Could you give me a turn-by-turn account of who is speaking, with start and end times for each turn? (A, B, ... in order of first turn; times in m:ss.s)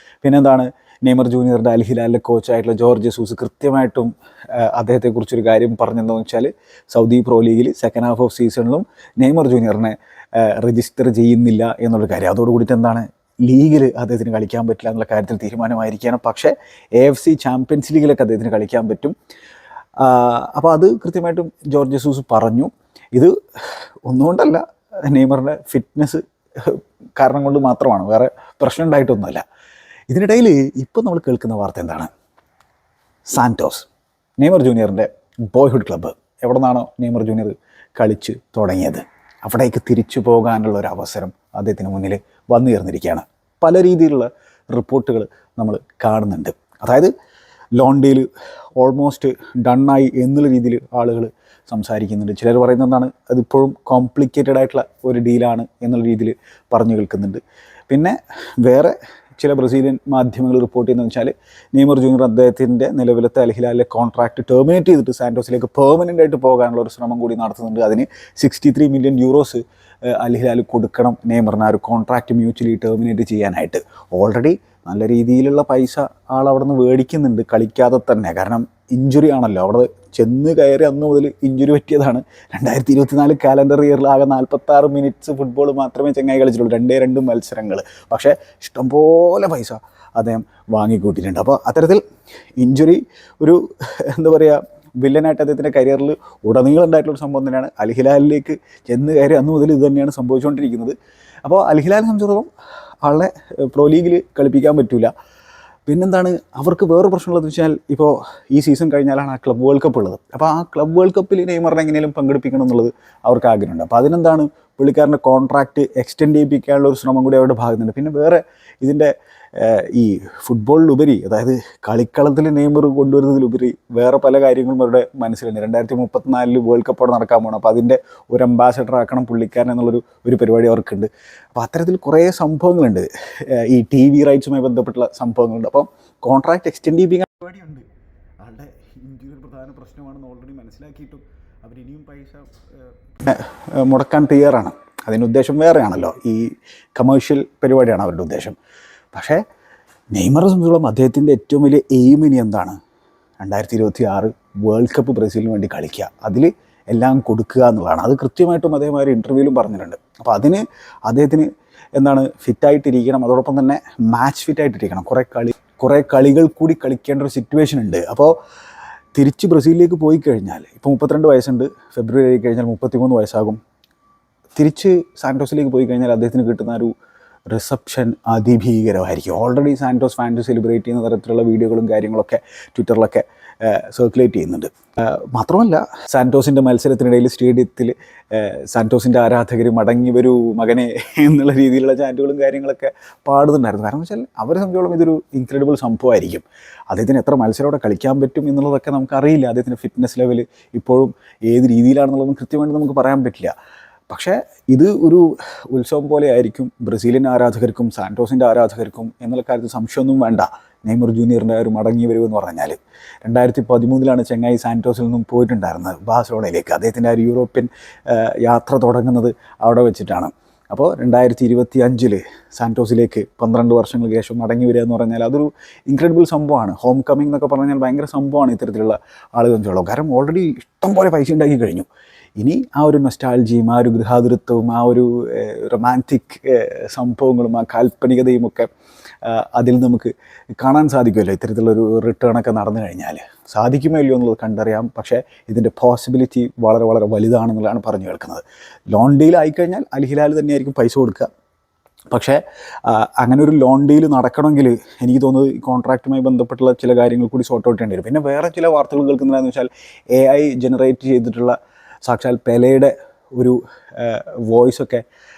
0:00.2-0:19.1 A
0:20.0-0:29.4 A
0:30.1-0:32.1 A
0:33.3-0:33.9 A
0:34.4-0:47.1 A
0:47.8-1:32.0 A
1:32.6-1:42.5 A
1:43.0-1:45.1 A
1:45.9-2:17.9 A
2:18.4-2:22.6 A
2:23.2-2:28.6 A
2:29.1-2:29.4 A
2:30.1-2:32.8 A
2:33.4-2:48.3 A
2:49.2-2:53.6 A
2:54.6-2:56.9 A
2:57.5-3:23.5 A
3:24.1-3:51.9 A
3:52.4-3:58.7 A
3:59.2-4:11.3 A
4:12.1-4:25.0 A